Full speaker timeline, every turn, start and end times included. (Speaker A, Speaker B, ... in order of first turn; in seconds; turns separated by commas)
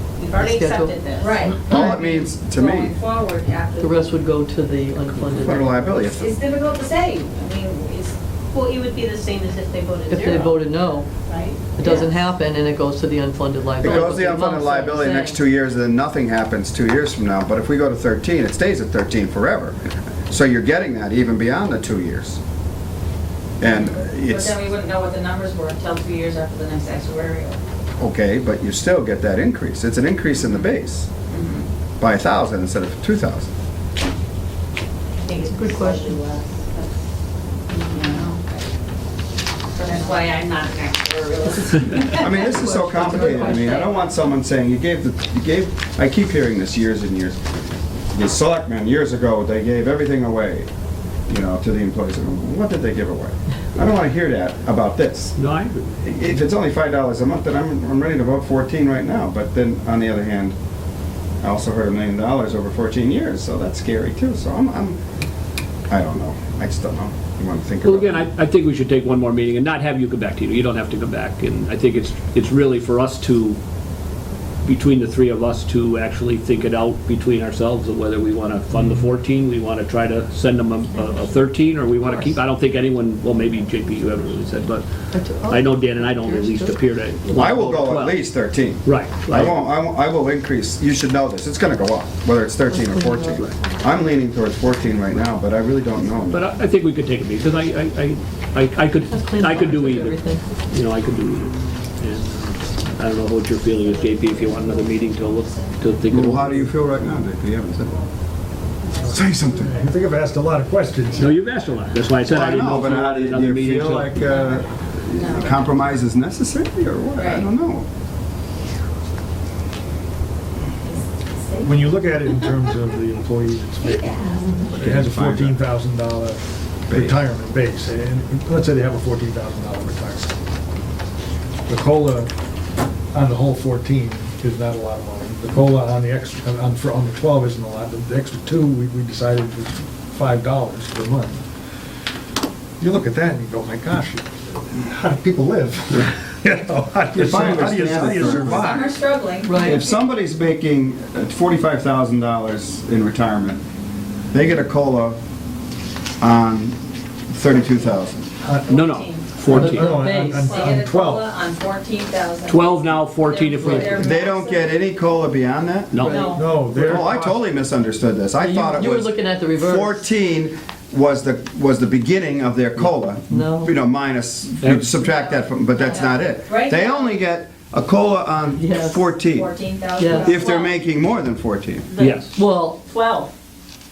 Speaker A: 0.2-1.8, Speaker B: 0.4-0.9, Speaker C: 1.2-4.2, Speaker D: 1.6-3.0, Speaker B: 3.8-5.8, Speaker D: 5.2-6.3, Speaker C: 6.1-8.2, Speaker A: 8.5-10.8, Speaker B: 10.1-11.1, Speaker A: 11.3-11.8, Speaker B: 11.8-15.4, Speaker C: 11.8-12.2, Speaker D: 13.8-22.4, Speaker D: 23.6-24.6, Speaker C: 23.6-27.6, Speaker D: 28.0-31.1, Speaker C: 30.3-30.7, Speaker C: 31.3-31.7, Speaker D: 32.0-33.5, Speaker A: 35.2-36.9, Speaker B: 35.4-36.2, Speaker C: 37.7-38.7, Speaker A: 37.9-38.3, Speaker C: 39.8-43.7, Speaker A: 39.8-40.4, Speaker A: 41.5-41.8, Speaker D: 42.2-47.4, Speaker B: 42.4-43.9, Speaker A: 43.4-44.0, Speaker D: 48.1-50.7, Speaker D: 51.3-55.4, Speaker E: 55.4-55.9, Speaker D: 56.0-60.6, Speaker D: 61.4-65.0, Speaker D: 65.9-68.3, Speaker E: 67.8-73.6, Speaker E: 74.7-84.9, Speaker A: 82.0-82.3, Speaker A: 83.4-84.5, Speaker B: 85.1-86.8, Speaker E: 85.5-88.2, Speaker D: 87.3-96.5, Speaker E: 88.8-89.6, Speaker B: 92.7-93.5, Speaker E: 96.3-106.7, Speaker B: 99.1-100.5, Speaker C: 103.8-106.0, Speaker D: 106.1-108.0, Speaker C: 107.8-108.1, Speaker C: 108.8-109.9, Speaker F: 109.0-111.4, Speaker D: 109.1-109.8, Speaker E: 111.2-114.2, Speaker D: 112.2-117.9, Speaker C: 114.2-115.9, Speaker C: 117.2-117.5, Speaker C: 120.8-122.7, Speaker F: 121.6-130.4, Speaker C: 123.8-124.6, Speaker D: 124.7-125.6, Speaker D: 126.9-127.2, Speaker F: 131.7-132.3, Speaker F: 133.1-141.4, Speaker F: 142.8-149.0, Speaker D: 147.1-148.8, Speaker C: 148.1-150.0, Speaker B: 149.4-149.8, Speaker D: 149.6-153.6, Speaker D: 154.3-155.2, Speaker D: 156.2-156.8, Speaker D: 157.3-158.3, Speaker C: 157.5-164.8, Speaker F: 158.4-158.8, Speaker E: 158.7-160.0, Speaker F: 159.4-161.3, Speaker B: 159.5-160.6, Speaker E: 162.5-164.1, Speaker D: 163.9-165.9, Speaker E: 165.9-166.3, Speaker B: 166.0-166.4, Speaker C: 166.1-166.7, Speaker F: 166.3-167.4, Speaker D: 166.6-179.5, Speaker B: 168.4-170.1, Speaker B: 173.3-173.7, Speaker E: 174.6-175.0, Speaker C: 175.8-177.2, Speaker B: 178.6-179.1, Speaker C: 179.2-180.7, Speaker B: 180.0-180.4, Speaker D: 180.1-181.9, Speaker A: 181.9-183.3, Speaker E: 182.0-182.3, Speaker B: 182.3-182.8